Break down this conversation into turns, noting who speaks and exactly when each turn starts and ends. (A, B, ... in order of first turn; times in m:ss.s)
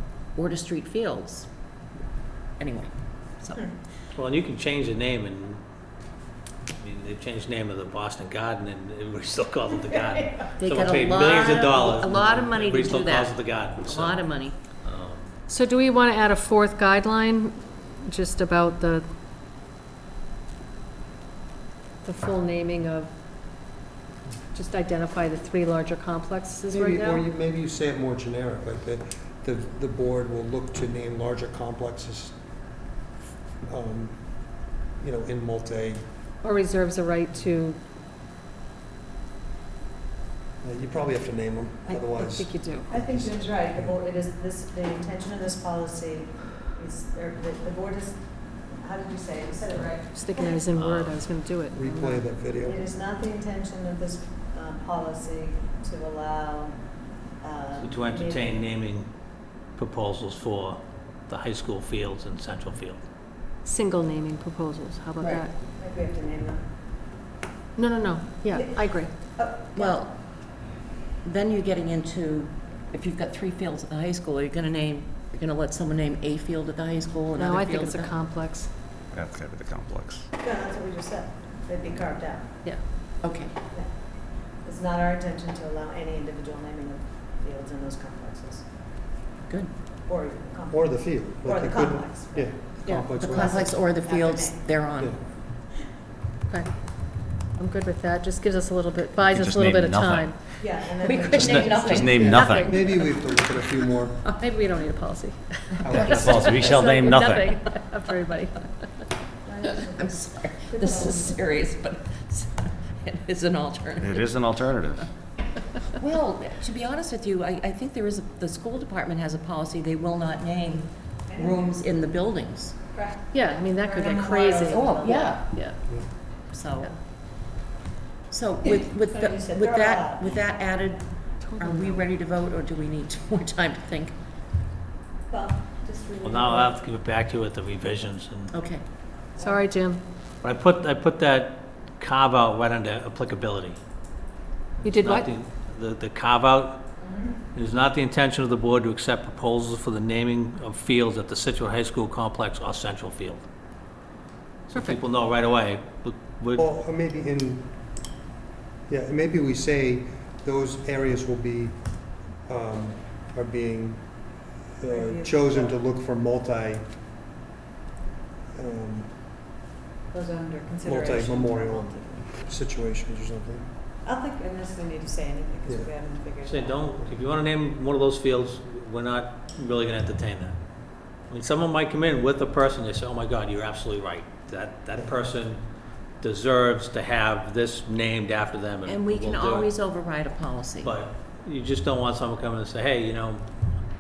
0:00.4-0:01.5 A
0:02.6-0:03.7 A
0:04.1-0:05.6 B
0:06.8-0:15.3 B
0:10.6-0:14.6 A
0:15.5-0:19.0 C
0:22.0-0:23.1 C
0:24.5-0:27.3 C
0:26.7-0:32.4 D
0:33.6-0:36.1 D
0:36.4-0:37.8 C
0:40.6-0:43.9 D
0:41.9-0:42.9 C
0:42.9-0:50.6 E
0:50.1-0:52.2 C
0:50.8-0:51.2 B
0:51.7-0:52.8 D
0:52.6-0:58.6 E
0:57.8-0:59.1 B
0:59.7-1:03.0 B
1:03.6-1:05.5 C
1:05.2-1:05.5 A
1:05.7-1:06.7 E
1:07.8-1:09.1 C
1:08.5-1:10.0 E
1:09.8-1:18.2 A
1:17.4-1:18.7 C
1:19.1-1:20.3 F
1:20.4-1:22.6 E
1:23.2-1:23.5 A
1:23.7-1:28.7 E
1:29.5-1:29.7 A
1:30.1-1:34.7 E
1:30.7-1:33.7 D
1:33.1-1:35.1 A
1:36.5-1:40.6 C
1:39.2-1:40.5 F
1:40.6-1:42.4 E
1:41.0-1:42.7 A
1:41.1-1:42.8 F
1:41.7-1:43.1 C
1:42.6-1:44.3 D
1:44.4-1:48.7 C
1:45.8-1:46.9 D
1:46.0-1:47.6 F
1:49.4-1:50.2 E
1:49.9-1:54.3 A
1:50.7-1:51.3 E
1:54.0-1:55.1 F
1:55.9-2:02.8 A
2:01.3-2:01.8 E
2:02.9-2:05.4 E
2:03.3-2:05.9 C
2:04.7-2:05.9 A
2:06.5-2:06.9 A
2:06.6-2:06.9 C
2:08.3-2:14.2 A
2:09.1-2:10.3 E
2:11.4-2:12.1 C
2:15.3-2:16.8 E
2:16.2-2:18.5 B
2:18.5-2:18.8 A
2:19.4-2:19.6 E
2:19.4-2:20.0 C
2:20.4-2:23.8 B
2:24.8-2:26.9 B
2:24.8-2:25.3 C
2:27.0-2:27.4 E
2:27.5-2:33.4 B
2:34.7-2:36.6 B
2:34.7-2:35.0 C
2:36.6-2:37.8 D
2:38.9-2:46.9 D
2:44.9-2:45.8 E
2:48.5-2:49.2 D
2:50.1-2:52.3 E
2:50.8-2:53.7 D
2:54.0-2:57.0 E
2:55.6-2:55.9 D
2:56.4-3:00.6 B
3:01.3-3:05.6 B
3:06.2-3:09.7 B
3:08.8-3:10.9 A
3:10.8-3:13.5 B